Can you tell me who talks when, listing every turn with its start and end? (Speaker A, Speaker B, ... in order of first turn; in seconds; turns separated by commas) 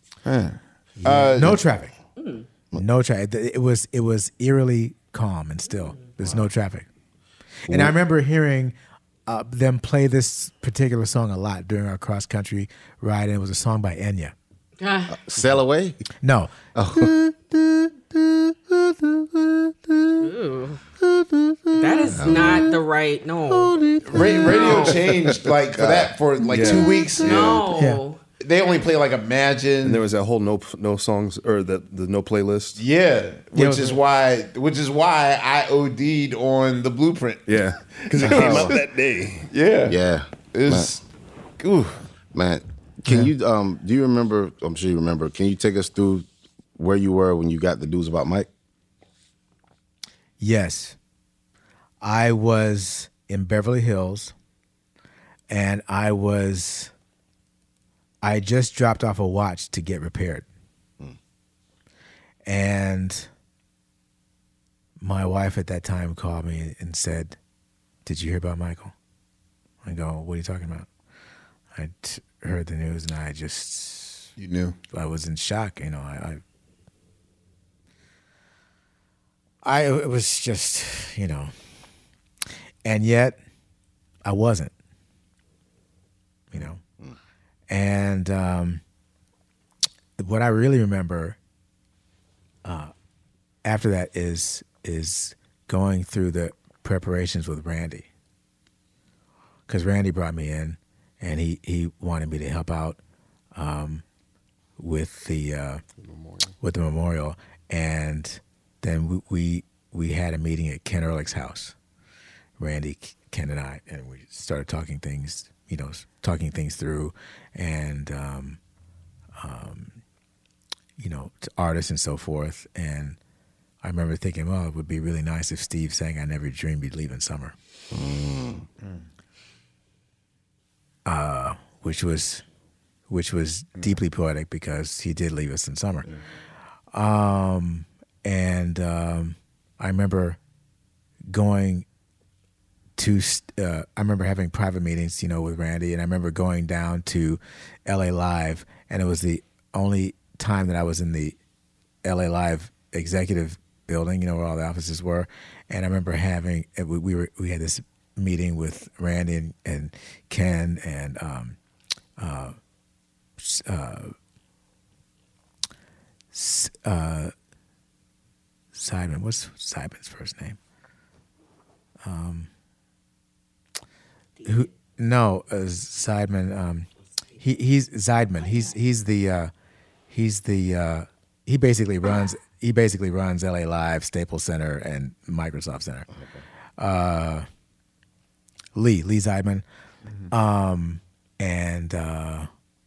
Speaker A: 0.2-1.6, Speaker B: 1.0-1.9, Speaker C: 2.2-2.5, Speaker B: 2.7-6.9, Speaker C: 5.7-6.1, Speaker B: 7.7-8.7, Speaker D: 7.7-7.9, Speaker B: 9.2-14.3, Speaker C: 14.8-15.2, Speaker D: 15.1-16.0, Speaker B: 16.2-16.6, Speaker D: 16.7-17.1, Speaker C: 20.2-20.8, Speaker C: 21.7-23.8, Speaker D: 22.1-22.6, Speaker A: 24.1-27.6, Speaker C: 24.5-24.9, Speaker D: 25.8-26.1, Speaker E: 26.5-27.7, Speaker C: 27.2-28.2, Speaker B: 27.7-28.0, Speaker A: 28.4-30.0, Speaker E: 29.8-32.8, Speaker A: 32.8-38.9, Speaker B: 33.5-34.0, Speaker E: 37.5-39.5, Speaker D: 38.2-38.7, Speaker A: 39.5-40.0, Speaker D: 39.9-40.9, Speaker A: 40.5-41.0, Speaker A: 41.6-42.0, Speaker D: 42.3-48.5, Speaker B: 50.4-51.0, Speaker B: 52.0-54.3, Speaker B: 55.5-56.9, Speaker B: 58.2-60.5, Speaker B: 62.4-63.3, Speaker B: 65.0-67.3, Speaker B: 68.0-68.9, Speaker B: 69.8-70.9, Speaker B: 71.7-74.3, Speaker A: 74.4-74.8, Speaker B: 74.9-76.4, Speaker B: 79.6-81.5, Speaker B: 82.8-83.4, Speaker B: 84.2-84.7, Speaker B: 86.5-86.8, Speaker B: 87.7-88.8, Speaker B: 90.2-91.4, Speaker B: 92.6-92.9, Speaker B: 93.6-98.1, Speaker B: 99.7-103.0, Speaker B: 103.5-104.0, Speaker B: 104.8-105.8, Speaker E: 106.0-106.5, Speaker B: 106.6-111.7, Speaker B: 112.6-118.6, Speaker B: 119.3-120.0, Speaker B: 121.0-123.2, Speaker B: 123.8-127.5, Speaker D: 127.9-128.6, Speaker B: 131.1-132.4, Speaker B: 133.1-136.1, Speaker B: 136.9-140.4, Speaker B: 141.3-141.8, Speaker B: 143.0-151.4, Speaker B: 152.0-161.6, Speaker B: 162.2-162.6, Speaker B: 163.4-164.1, Speaker B: 166.3-167.3, Speaker B: 168.7-170.6, Speaker B: 172.0-172.5, Speaker B: 174.4-176.9, Speaker B: 177.4-179.5, Speaker B: 180.1-186.1, Speaker D: 186.1-186.4, Speaker B: 186.8-187.4, Speaker B: 188.8-189.6, Speaker B: 190.3-192.5